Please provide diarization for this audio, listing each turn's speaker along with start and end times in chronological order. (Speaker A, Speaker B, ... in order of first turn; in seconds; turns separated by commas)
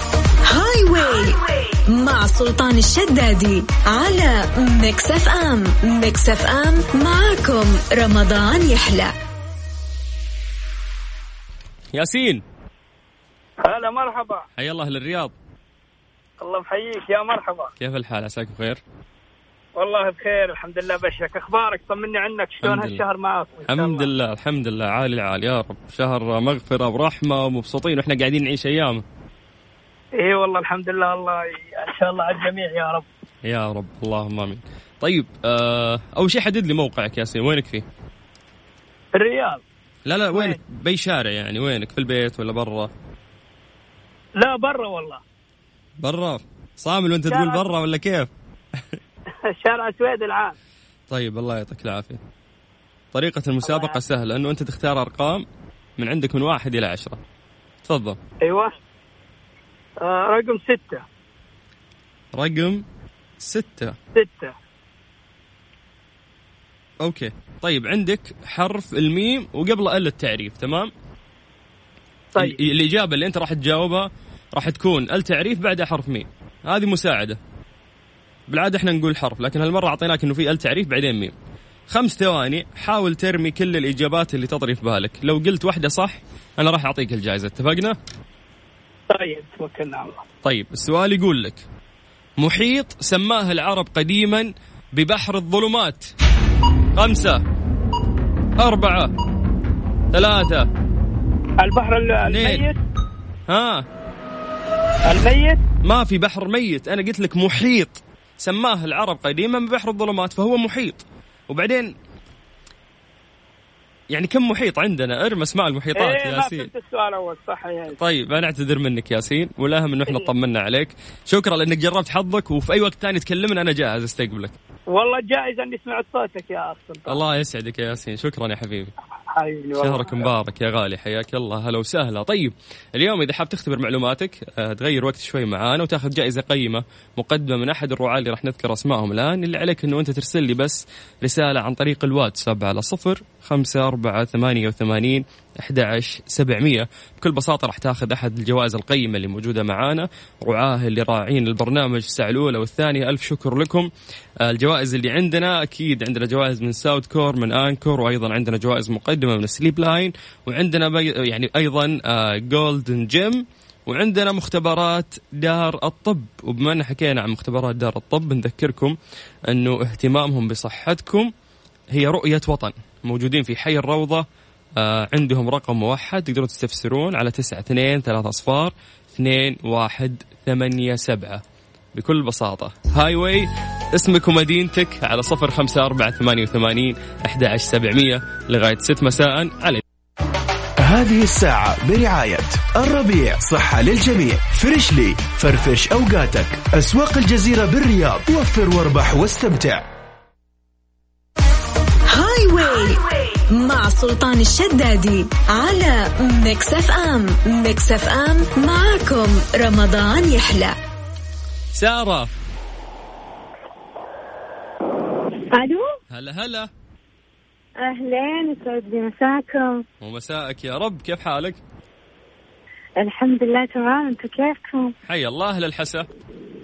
Speaker A: 0.5-9.1, Speaker B: 11.9-12.4, Speaker C: 13.6-14.4, Speaker B: 14.6-15.3, Speaker C: 16.4-17.7, Speaker B: 17.8-18.8, Speaker C: 19.8-24.1, Speaker B: 22.6-23.0, Speaker B: 23.6-29.0, Speaker C: 30.2-33.1, Speaker B: 33.5-37.8, Speaker C: 39.1-39.6, Speaker B: 40.1-42.9, Speaker C: 40.3-40.6, Speaker C: 44.4-45.2, Speaker B: 46.0-48.3, Speaker C: 47.3-47.7, Speaker C: 49.5-50.5, Speaker B: 51.1-52.2, Speaker B: 53.1-55.4, Speaker C: 53.6-54.0, Speaker B: 56.0-57.2, Speaker B: 57.9-58.2, Speaker C: 58.4-58.7, Speaker C: 60.0-61.0, Speaker B: 62.3-62.8, Speaker B: 63.4-64.0, Speaker C: 64.1-64.5, Speaker B: 67.0-70.9, Speaker B: 72.4-77.4, Speaker B: 78.5-81.3, Speaker B: 81.9-88.0, Speaker C: 89.1-90.2, Speaker B: 90.4-91.6, Speaker B: 92.4-96.1, Speaker B: 97.0-97.4, Speaker B: 98.6-99.1, Speaker B: 100.1-100.7, Speaker C: 101.6-102.8, Speaker B: 102.2-102.7, Speaker B: 103.5-103.8, Speaker C: 105.0-105.6, Speaker B: 105.8-111.9, Speaker B: 114.1-116.7, Speaker C: 116.0-118.0, Speaker B: 118.0-124.5, Speaker C: 124.9-127.2, Speaker B: 127.1-128.9, Speaker C: 129.3-130.3, Speaker B: 129.8-153.9, Speaker B: 154.4-168.9, Speaker B: 169.5-171.3, Speaker B: 171.9-174.2, Speaker B: 174.8-181.4, Speaker B: 181.9-189.8, Speaker D: 190.8-199.8, Speaker A: 202.1-210.8, Speaker B: 211.7-212.3, Speaker E: 215.5-215.9, Speaker B: 216.1-216.7, Speaker E: 217.8-219.8, Speaker B: 220.0-221.6, Speaker E: 223.0-224.9, Speaker B: 225.1-226.1